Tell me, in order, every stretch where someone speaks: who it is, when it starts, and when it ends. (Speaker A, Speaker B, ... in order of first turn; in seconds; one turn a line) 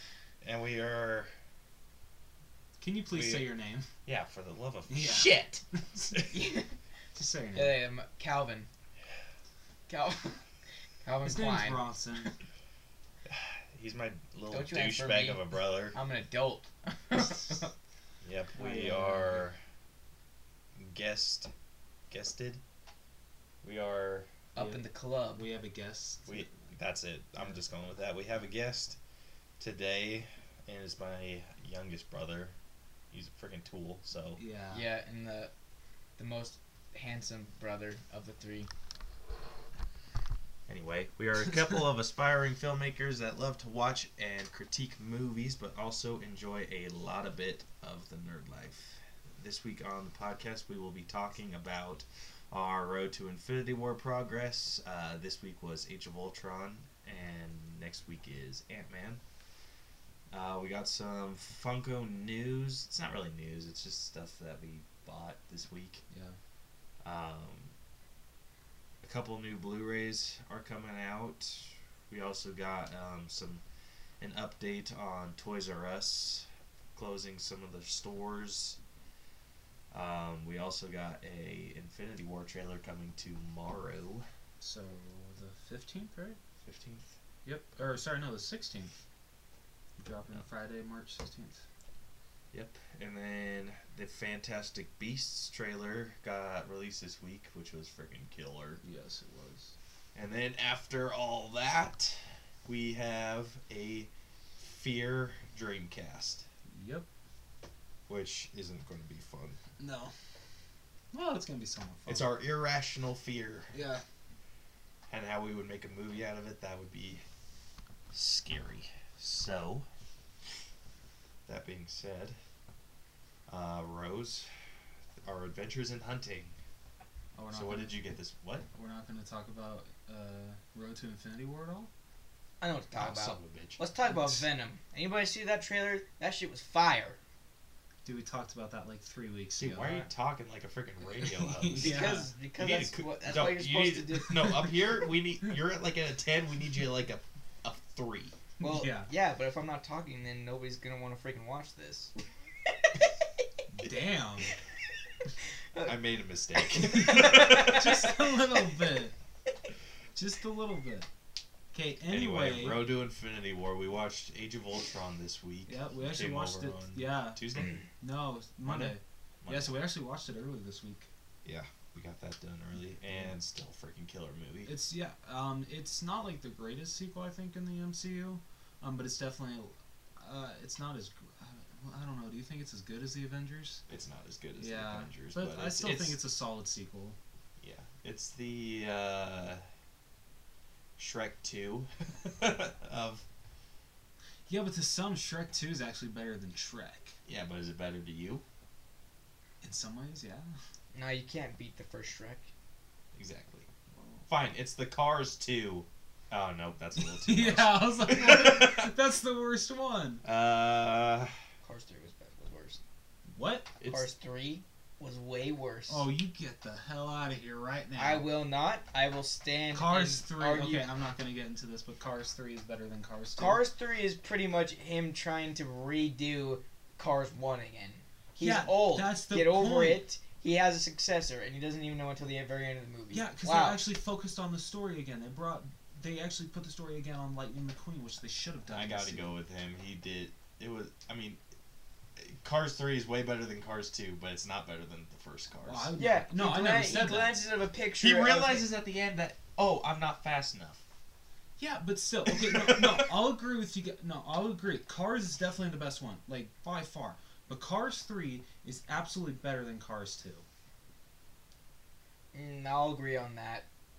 Speaker A: 0.4-1.3
Speaker B: 2.8-3.9
Speaker A: 3.1-3.5
Speaker A: 4.0-5.6
Speaker B: 4.9-6.1
Speaker C: 6.3-6.7
Speaker B: 7.1-7.8
Speaker C: 7.5-8.7
Speaker C: 9.9-10.4
Speaker C: 11.0-12.3
Speaker B: 11.2-12.3
Speaker A: 13.3-15.9
Speaker C: 14.5-17.7
Speaker A: 18.2-19.6
Speaker B: 18.5-19.5
Speaker A: 20.8-21.5
Speaker A: 22.1-22.6
Speaker A: 23.6-24.3
Speaker C: 24.5-25.4
Speaker B: 24.6-26.5
Speaker A: 26.2-29.0
Speaker A: 29.6-32.5
Speaker A: 33.1-34.4
Speaker B: 34.4-34.9
Speaker C: 34.7-35.5
Speaker C: 36.2-38.7
Speaker A: 40.7-59.2
Speaker A: 60.3-66.0
Speaker B: 66.1-66.4
Speaker A: 67.0-67.7
Speaker A: 69.0-73.6
Speaker A: 74.2-78.8
Speaker A: 79.9-84.2
Speaker B: 84.6-86.4
Speaker A: 86.6-87.2
Speaker B: 87.4-89.0
Speaker B: 90.0-91.6
Speaker A: 92.5-98.8
Speaker B: 98.8-99.7
Speaker A: 100.1-106.5
Speaker B: 106.7-107.1
Speaker A: 108.1-109.6
Speaker B: 109.8-110.1
Speaker B: 111.1-112.2
Speaker A: 112.1-113.7
Speaker B: 113.7-114.0
Speaker A: 115.1-117.2
Speaker A: 118.1-119.9
Speaker A: 121.5-122.4
Speaker A: 123.5-124.5
Speaker A: 125.2-126.5
Speaker B: 127.3-127.9
Speaker A: 127.5-128.7
Speaker B: 128.7-131.9
Speaker C: 132.6-137.2
Speaker A: 132.9-133.8
Speaker B: 138.0-140.1
Speaker A: 139.6-148.3
Speaker B: 141.2-142.3
Speaker C: 141.8-144.6
Speaker B: 148.6-149.1
Speaker C: 148.6-152.1
Speaker B: 153.7-154.5
Speaker A: 155.8-158.0
Speaker C: 156.7-158.2
Speaker B: 157.1-159.1
Speaker B: 160.1-161.1
Speaker B: 161.7-162.8
Speaker A: 162.1-167.8
Speaker B: 165.7-167.4
Speaker B: 168.0-171.1
Speaker A: 168.6-169.8
Speaker A: 171.4-174.8
Speaker B: 173.1-173.3
Speaker B: 174.7-183.8
Speaker A: 183.9-186.2
Speaker B: 184.6-187.2
Speaker A: 187.6-189.6
Speaker A: 191.0-193.2
Speaker B: 194.5-197.2
Speaker A: 197.3-198.4
Speaker B: 199.6-200.5
Speaker C: 200.9-202.5
Speaker A: 203.2-203.7
Speaker B: 203.9-204.3
Speaker A: 204.3-208.9
Speaker B: 207.0-210.2
Speaker A: 210.2-211.3
Speaker C: 211.6-212.8
Speaker B: 213.3-213.7
Speaker A: 213.8-214.1
Speaker C: 213.8-216.1
Speaker B: 215.9-218.3
Speaker C: 218.0-220.8
Speaker B: 219.7-223.6
Speaker C: 223.4-233.8
Speaker B: 228.4-230.0
Speaker B: 233.1-239.3
Speaker A: 238.7-241.4
Speaker A: 242.2-245.9
Speaker B: 245.6-247.4
Speaker C: 246.0-248.7
Speaker A: 248.0-250.8
Speaker B: 251.6-260.4
Speaker A: 252.3-253.1
Speaker C: 262.3-263.6